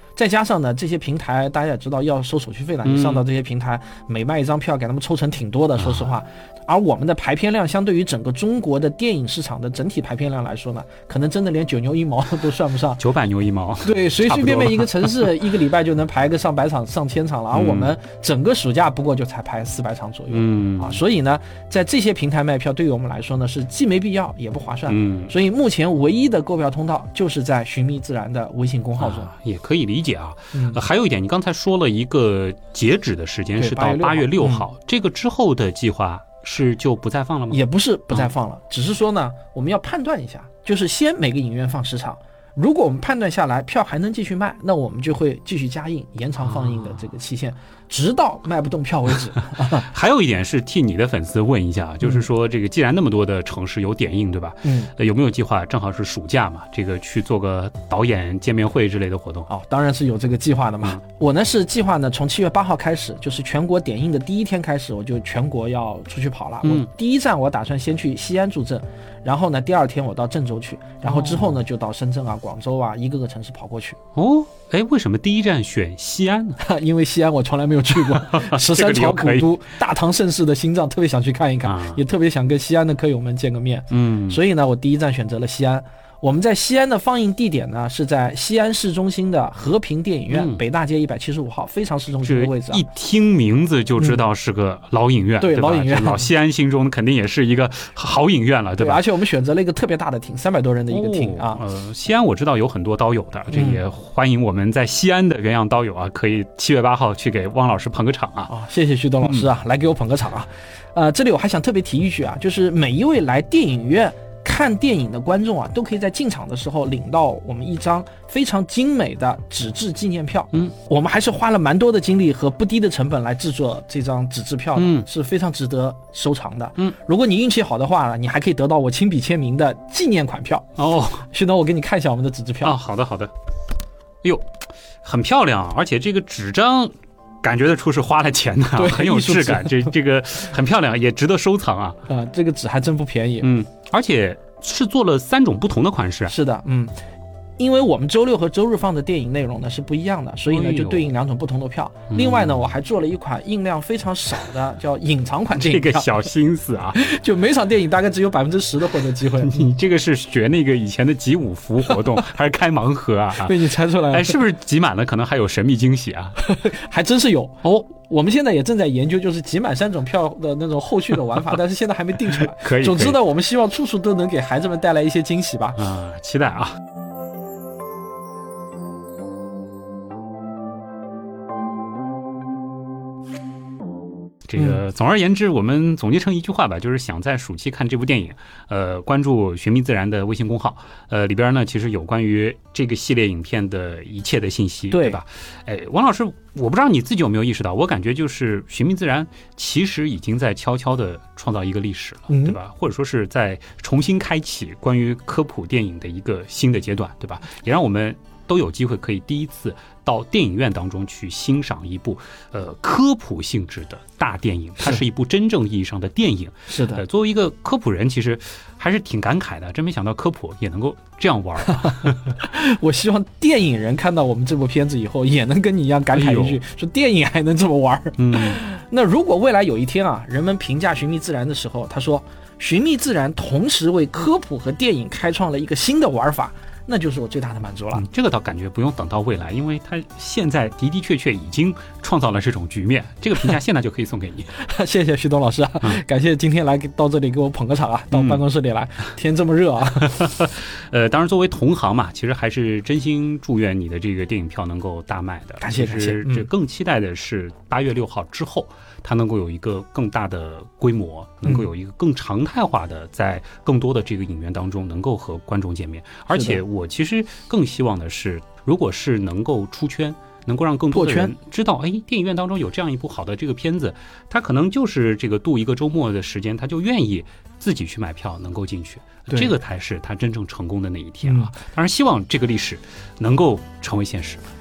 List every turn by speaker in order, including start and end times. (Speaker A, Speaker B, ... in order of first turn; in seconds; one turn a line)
Speaker A: 0.1-13.0
Speaker B: 2.8-3.2
Speaker B: 5.8-6.1
Speaker B: 13.0-15.3
Speaker A: 13.8-29.3
Speaker B: 17.5-17.9
Speaker B: 20.3-21.0
Speaker B: 24.9-25.3
Speaker B: 29.0-38.3
Speaker A: 30.5-30.8
Speaker A: 33.6-34.6
Speaker A: 37.5-49.9
Speaker B: 46.4-47.0
Speaker B: 49.6-59.5
Speaker A: 54.6-54.9
Speaker A: 59.5-74.0
Speaker B: 71.0-71.6
Speaker B: 74.1-76.6
Speaker A: 76.6-92.8
Speaker B: 77.9-79.5
Speaker B: 81.6-82.0
Speaker B: 83.9-84.4
Speaker B: 90.3-90.6
Speaker B: 92.2-99.0
Speaker A: 95.4-96.3
Speaker A: 98.8-101.6
Speaker B: 100.9-108.5
Speaker A: 103.5-103.8
Speaker A: 108.5-130.7
Speaker B: 124.8-125.1
Speaker B: 130.8-131.2
Speaker A: 131.3-132.8
Speaker B: 132.6-133.3
Speaker B: 135.0-142.0
Speaker A: 138.8-139.9
Speaker A: 142.1-143.5
Speaker B: 143.4-146.3
Speaker A: 146.3-146.9
Speaker A: 147.6-156.1
Speaker B: 150.5-151.1
Speaker B: 152.1-152.6
Speaker B: 155.5-157.0
Speaker A: 156.9-159.5
Speaker B: 159.4-163.6
Speaker A: 163.4-164.3
Speaker B: 164.1-166.4
Speaker A: 166.5-175.8
Speaker B: 172.5-173.2
Speaker B: 175.8-176.8
Speaker B: 184.5-222.3
Speaker A: 194.9-195.2
Speaker A: 202.3-202.6
Speaker A: 216.7-217.0
Speaker A: 221.9-238.0
Speaker B: 226.1-226.6
Speaker B: 228.2-228.6
Speaker B: 237.9-244.5
Speaker A: 244.6-250.2
Speaker B: 248.1-248.4
Speaker B: 250.1-284.4
Speaker A: 255.6-256.5
Speaker A: 266.3-266.6
Speaker A: 270.9-271.3
Speaker A: 281.2-281.5